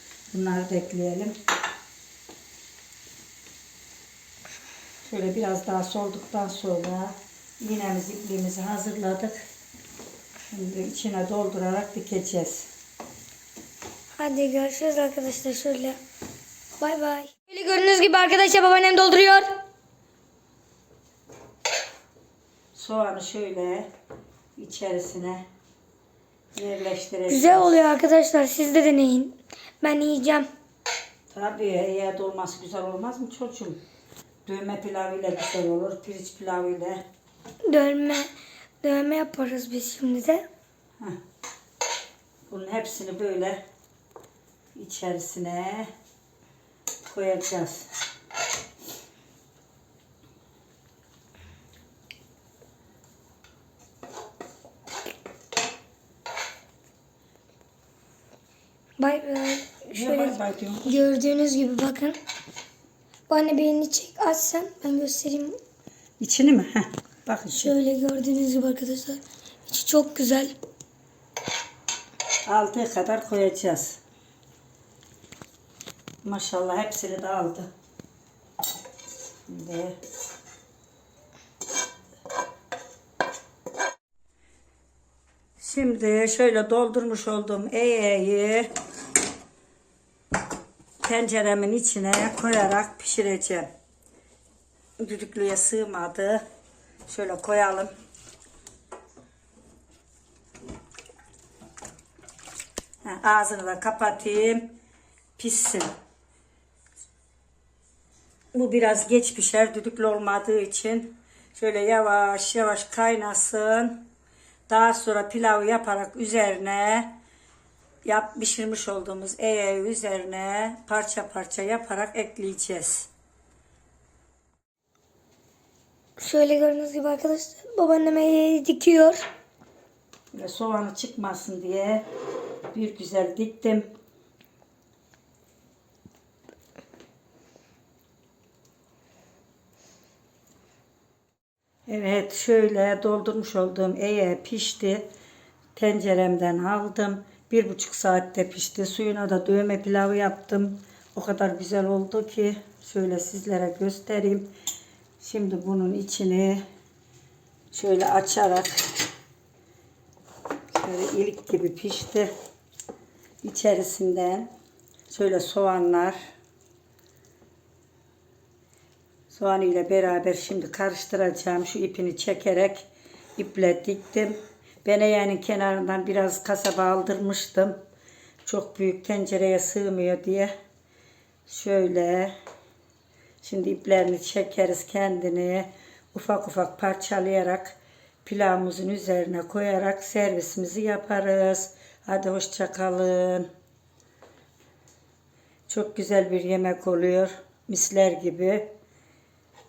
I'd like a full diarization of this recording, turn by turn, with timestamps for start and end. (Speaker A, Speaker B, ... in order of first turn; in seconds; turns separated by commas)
Speaker A: 0.3-1.3, Speaker A: 5.0-9.4, Speaker A: 10.5-12.7, Speaker B: 14.2-16.0, Speaker B: 16.8-19.6, Speaker A: 22.7-23.9, Speaker A: 24.6-25.4, Speaker A: 26.6-27.8, Speaker B: 27.3-30.5, Speaker A: 31.3-33.8, Speaker A: 34.5-37.0, Speaker B: 37.7-38.3, Speaker B: 38.8-40.5, Speaker A: 42.5-43.6, Speaker A: 44.8-45.9, Speaker A: 47.0-47.9, Speaker B: 59.0-62.2, Speaker A: 59.9-61.0, Speaker B: 63.3-65.6, Speaker A: 66.2-67.7, Speaker B: 67.6-70.5, Speaker A: 72.5-74.0, Speaker A: 76.2-77.7, Speaker A: 79.5-80.0, Speaker A: 85.6-88.7, Speaker A: 91.0-93.7, Speaker A: 95.0-96.4, Speaker A: 97.1-97.9, Speaker A: 103.0-104.7, Speaker A: 105.4-105.9, Speaker A: 108.5-114.0, Speaker A: 114.7-117.1, Speaker A: 118.0-123.1, Speaker B: 126.2-129.2, Speaker A: 130.3-132.0, Speaker A: 132.7-133.9, Speaker A: 141.9-145.1, Speaker A: 145.8-154.5, Speaker A: 155.2-156.6, Speaker A: 157.7-158.8, Speaker A: 160.8-162.3, Speaker A: 163.4-164.5, Speaker A: 165.1-166.2, Speaker A: 169.3-177.8, Speaker A: 178.5-180.5, Speaker A: 181.5-182.3, Speaker A: 183.4-193.5, Speaker A: 195.7-198.7